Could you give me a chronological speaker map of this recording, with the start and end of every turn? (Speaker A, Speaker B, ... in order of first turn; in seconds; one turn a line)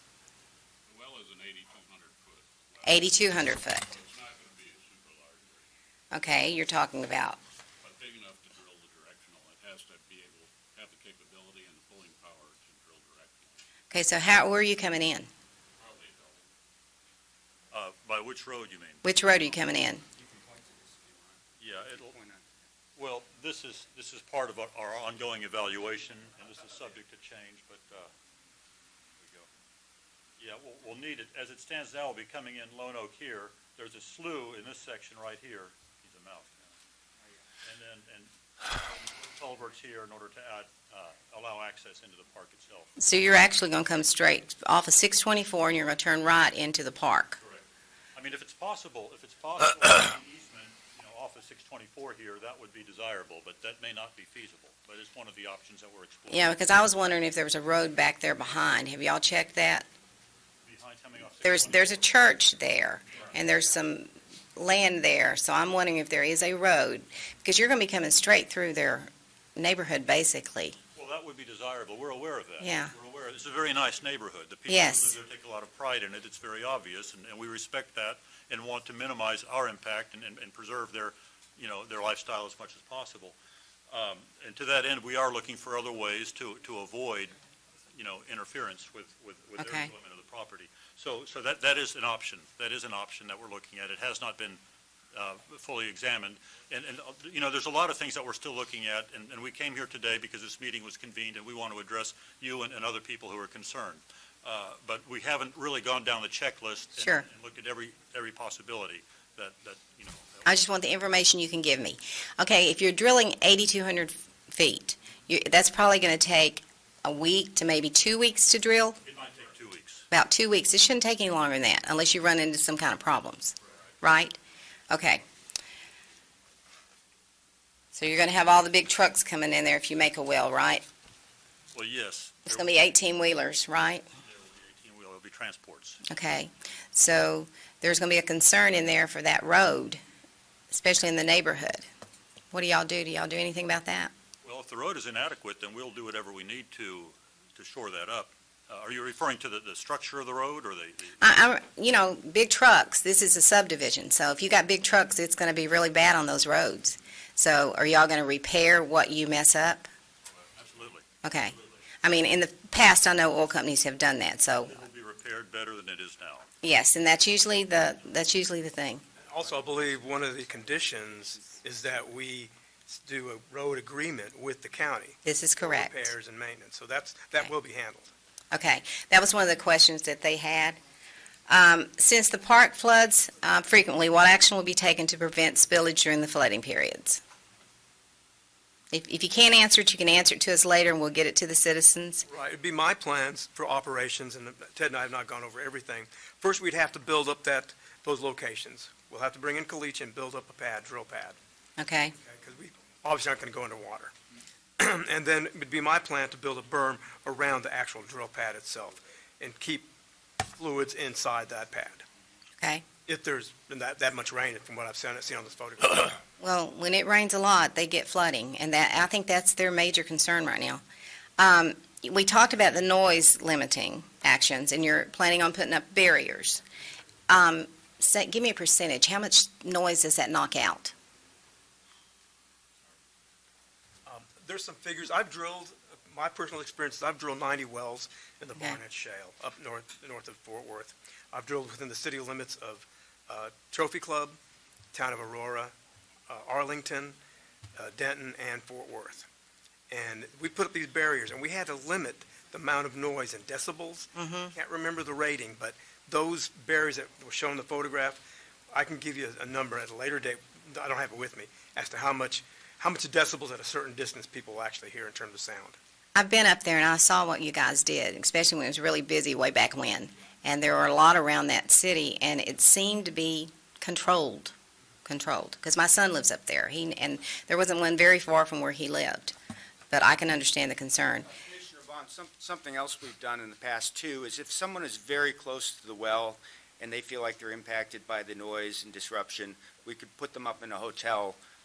Speaker A: 0.9-3.4
Speaker B: 2.9-3.9
Speaker A: 3.9-5.7
Speaker B: 6.1-7.4
Speaker A: 7.8-13.7
Speaker B: 13.9-15.3
Speaker A: 15.8-16.5
Speaker C: 17.7-19.0
Speaker B: 19.0-20.0
Speaker D: 20.2-21.2
Speaker C: 21.6-22.2
Speaker D: 22.0-22.4
Speaker C: 23.0-28.1
Speaker C: 29.2-29.5
Speaker C: 30.4-36.5
Speaker C: 37.6-43.0
Speaker B: 43.0-47.4
Speaker C: 47.4-56.5
Speaker B: 56.3-59.9
Speaker C: 60.6-62.1
Speaker B: 61.4-70.8
Speaker C: 71.0-83.4
Speaker B: 72.6-72.9
Speaker B: 74.7-75.2
Speaker C: 83.9-87.4
Speaker C: 87.9-94.6
Speaker B: 89.6-89.9
Speaker C: 95.1-110.6
Speaker B: 110.5-119.0
Speaker C: 119.0-120.1
Speaker B: 120.1-124.4
Speaker C: 123.6-123.9
Speaker B: 124.9-125.2
Speaker B: 127.9-130.8
Speaker C: 131.7-132.7
Speaker B: 132.5-134.0
Speaker C: 134.2-136.0
Speaker B: 136.1-140.0
Speaker B: 140.7-141.9
Speaker B: 142.5-144.1
Speaker C: 144.4-151.2
Speaker B: 151.2-159.9
Speaker C: 160.6-161.9
Speaker B: 161.2-164.8
Speaker C: 164.6-166.5
Speaker B: 166.6-169.0
Speaker E: 169.2-178.1
Speaker B: 175.2-176.1
Speaker B: 178.5-180.8
Speaker B: 181.5-187.2
Speaker B: 188.9-192.2
Speaker E: 192.3-201.4
Speaker B: 201.8-202.2
Speaker E: 202.2-204.1
Speaker E: 204.8-209.9
Speaker E: 210.6-212.1
Speaker E: 213.1-216.2
Speaker B: 216.4-220.8
Speaker B: 221.4-226.6
Speaker B: 227.3-230.9
Speaker E: 234.1-244.4
Speaker E: 244.9-245.7
Speaker E: 246.3-247.2
Speaker E: 247.8-249.3
Speaker E: 249.9-258.2
Speaker B: 254.2-254.5
Speaker E: 258.7-265.8
Speaker B: 266.1-274.6
Speaker B: 275.1-279.4
Speaker B: 279.9-281.3
Speaker D: 281.3-291.4